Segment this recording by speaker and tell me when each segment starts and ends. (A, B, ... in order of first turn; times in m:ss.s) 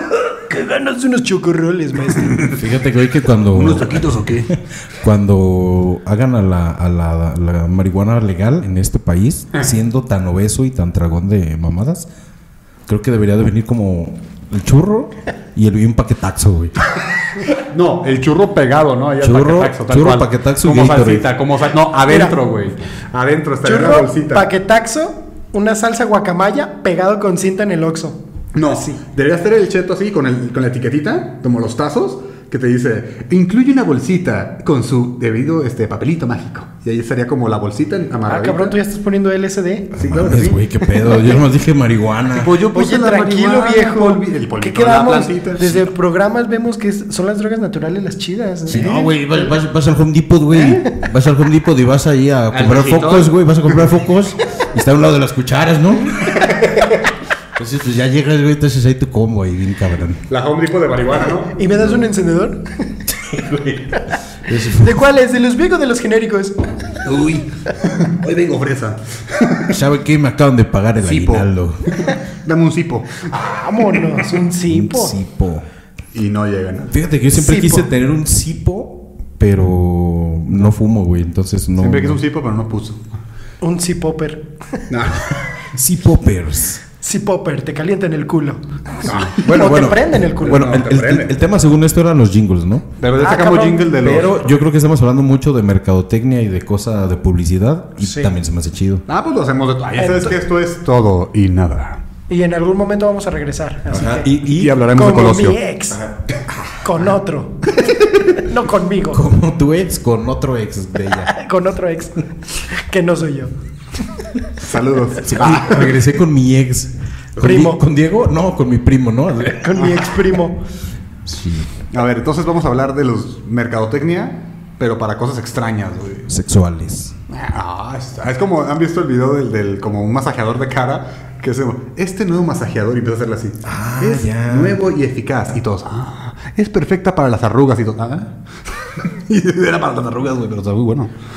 0:00.5-0:02.4 A
0:02.5-0:12.1 B
0:03.5-0:04.5 C
0:12.9-0:16.7 B
0:17.5-0:24.5 C
0:19.2-0:21.4 B
0:22.0-0:22.4 A
0:23.6-0:28.2 A
0:28.5-0:38.8 C
0:38.2-0:39.9 A
0:39.9-0:41.3 C
0:39.9-0:42.5 B
0:42.3-0:45.8 C
0:42.7-0:49.1 A
0:48.7-0:56.4 B
0:52.5-0:53.9 C
0:56.4-0:56.9 C
0:57.6-1:00.2 B
1:00.3-1:01.8 C
1:01.5-1:02.7 A
1:03.1-1:05.0 B
1:04.8-1:06.6 A
1:07.0-1:09.7 C
1:09.7-1:12.0 B
1:11.0-1:13.3 C
1:13.3-1:15.1 A
1:14.7-1:15.6 B
1:16.1-1:16.9 C
1:16.9-1:22.2 B
1:17.4-1:17.9 A
1:21.8-1:23.0 C
1:23.6-1:24.5 A
1:24.9-1:25.3 C
1:25.7-1:26.8 B
1:27.0-1:28.6 A
1:29.0-1:29.8 C
1:29.4-1:32.9 B
1:29.5-1:30.7 A
1:30.4-1:31.4 C
1:33.0-1:34.4 C
1:33.2-1:33.9 A
1:34.0-1:39.0 B
1:38.0-1:38.3 A
1:39.1-1:42.0 C
1:40.0-1:40.3 A
1:42.3-1:44.3 A
1:43.9-1:44.8 B
1:44.0-1:45.6 C
1:44.8-1:46.0 A
1:46.8-1:47.7 A
1:48.3-1:49.2 A
1:49.1-1:51.3 B
1:51.2-1:53.5 A
1:54.6-1:56.0 C
1:55.2-1:59.8 B
1:57.4-1:57.8 A
1:59.6-2:00.6 A
2:01.2-2:01.7 B
2:01.9-2:06.3 C
2:06.3-2:07.1 B
2:07.3-2:18.3 C
2:13.6-2:14.8 B
2:19.0-2:21.1 C